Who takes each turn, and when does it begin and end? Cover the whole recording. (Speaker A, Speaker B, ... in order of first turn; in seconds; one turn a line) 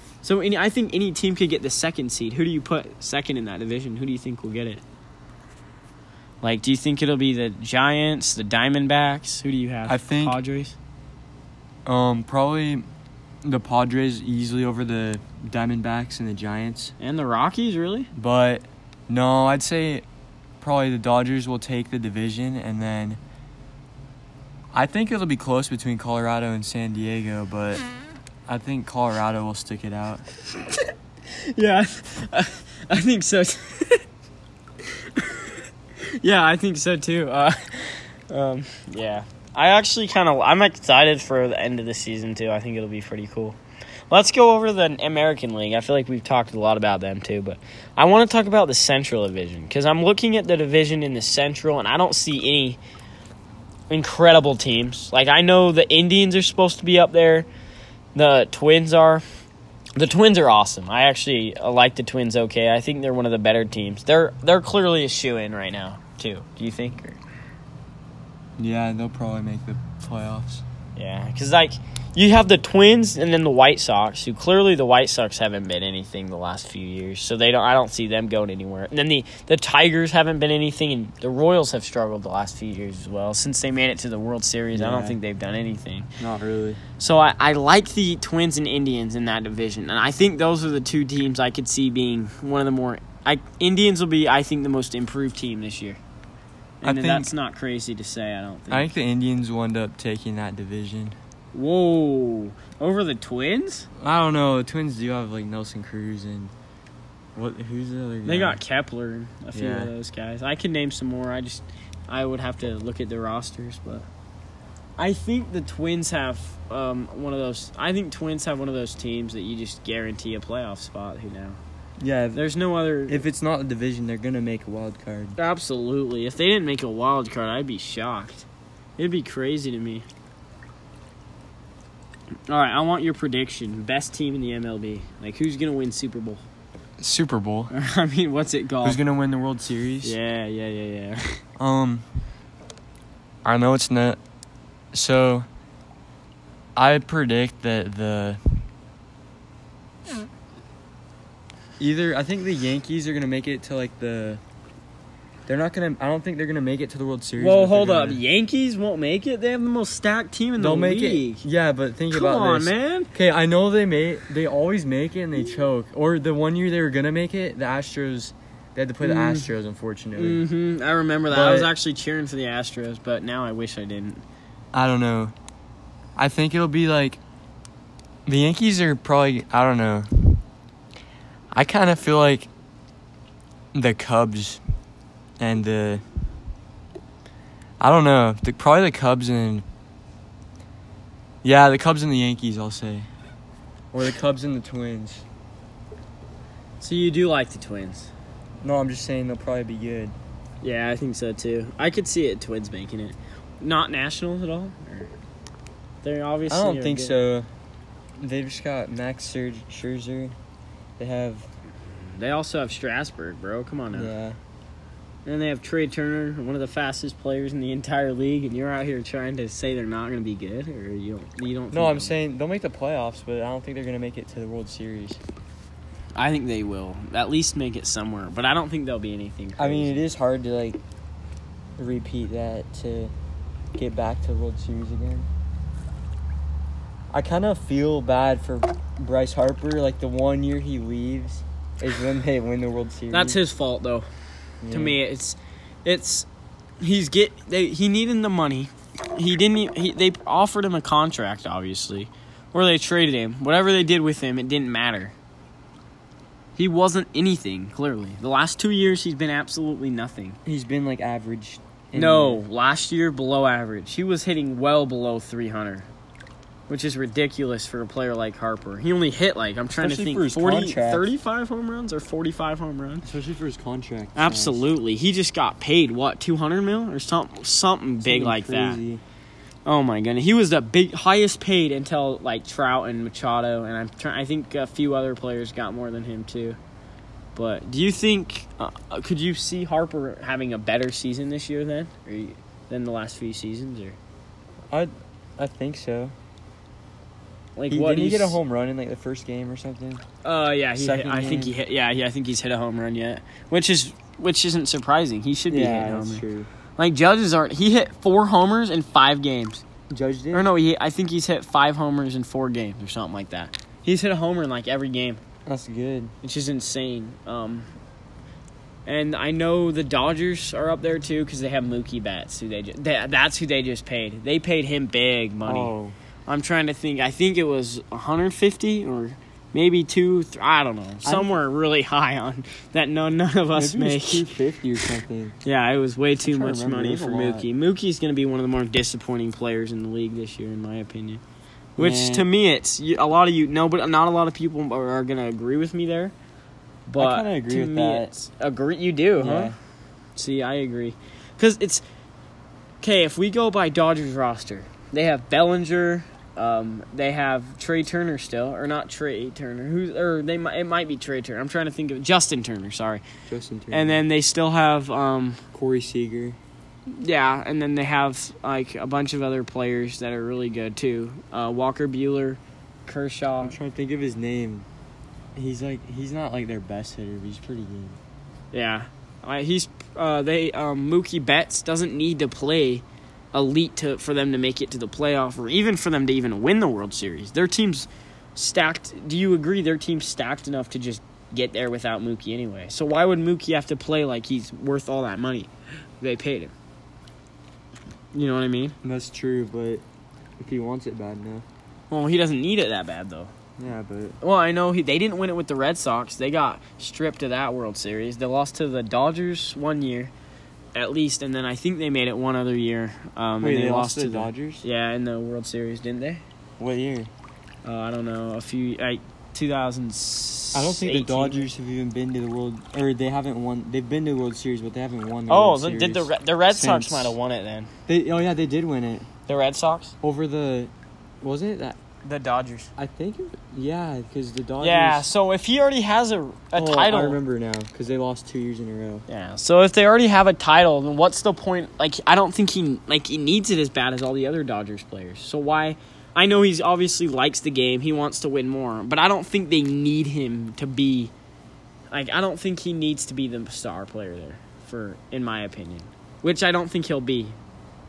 Speaker A: 0.2-4.8
Speaker A: 6.4-10.8
Speaker B: 9.9-10.4
Speaker B: 11.8-12.8
Speaker B: 13.4-16.9
Speaker A: 17.0-18.1
Speaker B: 18.1-20.0
Speaker B: 20.6-23.2
Speaker B: 24.7-27.8
Speaker B: 28.5-30.2
Speaker A: 31.3-34.0
Speaker A: 35.1-35.5
Speaker A: 36.2-43.6
Speaker A: 44.1-52.8
Speaker A: 53.9-57.5
Speaker A: 58.1-59.2
Speaker A: 60.0-67.2
Speaker B: 68.6-70.6
Speaker A: 71.0-86.1
Speaker B: 84.7-85.2
Speaker B: 86.2-86.8
Speaker A: 87.0-96.0
Speaker A: 96.8-98.9
Speaker B: 96.8-97.3
Speaker B: 98.7-101.2
Speaker A: 101.5-103.9
Speaker B: 104.0-106.5
Speaker B: 107.3-108.6
Speaker A: 108.2-114.1
Speaker B: 109.5-109.9
Speaker A: 115.0-121.6
Speaker B: 122.0-122.4
Speaker A: 122.3-123.2
Speaker B: 123.1-125.4
Speaker A: 125.4-130.1
Speaker A: 132.5-136.4
Speaker B: 137.0-137.7
Speaker A: 137.7-139.0
Speaker B: 138.8-140.2
Speaker A: 140.0-141.4
Speaker B: 141.6-142.0
Speaker B: 143.4-144.2
Speaker B: 144.9-145.4
Speaker B: 146.8-148.6
Speaker B: 151.8-154.4
Speaker B: 155.5-158.2
Speaker A: 157.4-161.4
Speaker B: 160.6-170.4
Speaker A: 162.1-163.1
Speaker A: 169.0-169.5
Speaker A: 170.2-174.2
Speaker B: 171.3-171.7
Speaker B: 174.7-175.3
Speaker B: 176.2-177.2
Speaker B: 178.2-180.4
Speaker B: 181.5-182.5
Speaker B: 183.7-184.6
Speaker B: 185.4-186.0
Speaker B: 187.8-189.6
Speaker B: 191.4-193.1
Speaker B: 193.9-195.2
Speaker A: 196.8-198.1
Speaker B: 198.6-200.1
Speaker A: 200.6-205.1
Speaker A: 206.0-207.1
Speaker B: 206.5-207.5
Speaker B: 208.2-210.3
Speaker B: 211.0-211.5
Speaker A: 211.9-214.1
Speaker B: 213.9-214.4
Speaker A: 215.2-222.1
Speaker B: 221.7-225.2
Speaker A: 226.2-230.0
Speaker B: 229.6-230.8
Speaker B: 231.8-233.1
Speaker B: 233.7-235.3
Speaker B: 237.1-243.4
Speaker A: 243.1-244.1
Speaker B: 244.6-245.0
Speaker A: 244.7-246.3
Speaker A: 246.8-255.1
Speaker A: 256.6-260.4
Speaker B: 260.4-262.4
Speaker A: 261.9-265.9
Speaker A: 266.7-273.1
Speaker B: 269.8-271.1
Speaker B: 273.0-274.6
Speaker A: 274.1-278.8
Speaker B: 278.0-279.0
Speaker A: 279.6-286.6
Speaker A: 287.3-294.0
Speaker B: 294.7-296.1
Speaker A: 297.6-298.4
Speaker B: 297.7-300.0
Speaker A: 300.2-306.2
Speaker B: 300.8-301.6
Speaker B: 305.5-306.5
Speaker A: 306.8-309.6
Speaker B: 309.9-310.5
Speaker A: 310.3-315.2
Speaker B: 315.4-316.1
Speaker A: 316.2-317.7
Speaker A: 318.9-325.7
Speaker B: 325.4-325.9
Speaker A: 326.3-334.3
Speaker B: 331.0-331.3
Speaker B: 333.5-335.4
Speaker A: 335.4-341.2
Speaker B: 336.2-337.5
Speaker B: 341.8-342.3
Speaker A: 341.8-346.1
Speaker A: 346.9-349.5
Speaker B: 347.0-348.1
Speaker B: 349.2-349.6
Speaker A: 350.1-351.8
Speaker A: 352.8-363.0
Speaker B: 363.3-364.0
Speaker A: 363.7-365.4
Speaker B: 365.5-366.4
Speaker A: 366.9-373.6
Speaker B: 373.4-374.7
Speaker B: 375.4-378.0
Speaker A: 378.5-396.5
Speaker A: 398.1-398.8
Speaker B: 398.8-399.8
Speaker B: 400.4-401.4
Speaker A: 401.9-403.3
Speaker B: 403.6-404.2
Speaker A: 404.2-410.1
Speaker A: 410.7-416.2
Speaker B: 413.4-414.6
Speaker B: 416.6-417.1
Speaker A: 417.6-421.4
Speaker B: 420.5-427.1
Speaker A: 425.3-427.7
Speaker B: 427.9-429.1
Speaker A: 429.3-429.9
Speaker B: 430.0-430.7
Speaker B: 431.2-431.8
Speaker A: 432.0-432.7
Speaker B: 432.8-435.1
Speaker A: 434.6-437.2
Speaker B: 436.5-439.1
Speaker A: 439.1-451.1
Speaker A: 451.9-457.4